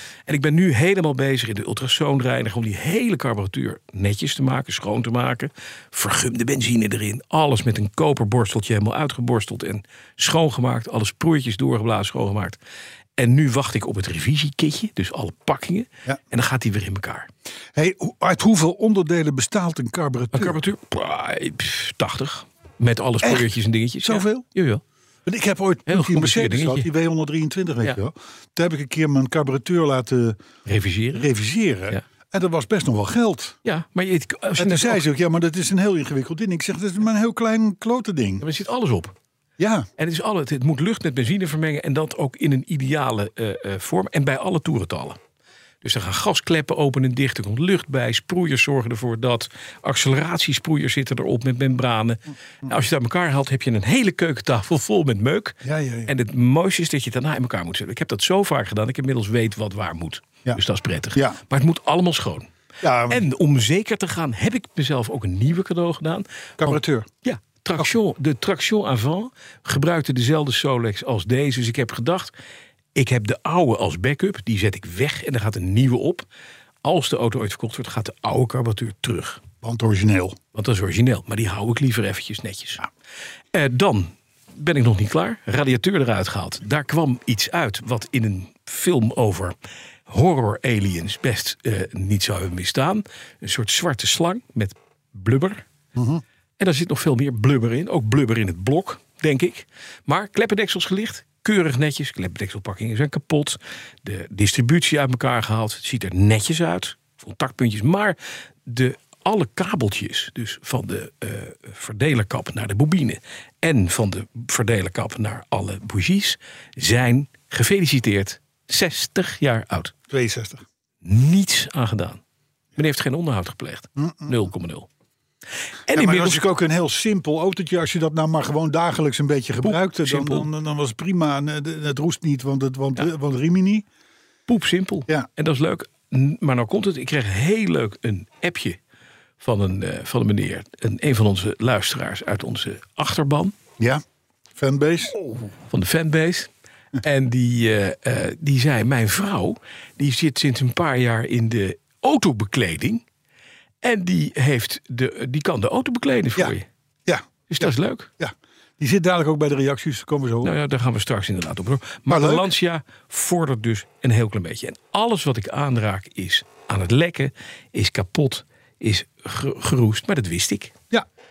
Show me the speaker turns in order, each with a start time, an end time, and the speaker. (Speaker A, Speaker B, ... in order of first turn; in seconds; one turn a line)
Speaker A: 0.3-12.6
Speaker A: 13.2-17.3
Speaker B: 17.8-20.6
Speaker A: 20.3-24.8
Speaker B: 23.2-23.5
Speaker B: 24.0-24.5
Speaker B: 25.3-30.4
Speaker A: 25.9-26.9
Speaker A: 30.7-31.3
Speaker B: 31.1-33.6
Speaker A: 33.6-35.0
Speaker B: 34.6-38.4
Speaker A: 38.4-39.1
Speaker B: 39.6-39.9
Speaker A: 40.0-45.2
Speaker A: 45.8-62.5
Speaker B: 55.6-56.1
Speaker B: 61.1-61.4
Speaker B: 62.8-63.3
Speaker A: 63.1-72.3
Speaker B: 66.6-67.1
Speaker A: 73.0-76.3
Speaker A: 76.8-79.4
Speaker B: 79.6-80.4
Speaker A: 80.5-82.8
Speaker A: 83.5-89.5
Speaker A: 90.1-95.7
Speaker B: 96.0-96.2
Speaker A: 96.6-119.9
Speaker B: 120.1-120.6
Speaker A: 121.0-122.2
Speaker A: 122.8-124.9
Speaker B: 124.0-124.5
Speaker A: 125.9-126.4
Speaker B: 125.9-133.9
Speaker A: 129.6-130.5
Speaker A: 134.5-138.8
Speaker A: 139.4-143.5
Speaker B: 144.6-145.2
Speaker A: 145.7-146.5
Speaker A: 147.0-153.0
Speaker A: 153.8-156.7
Speaker B: 157.1-160.5
Speaker A: 157.5-158.1
Speaker A: 160.4-170.8
Speaker B: 162.1-162.5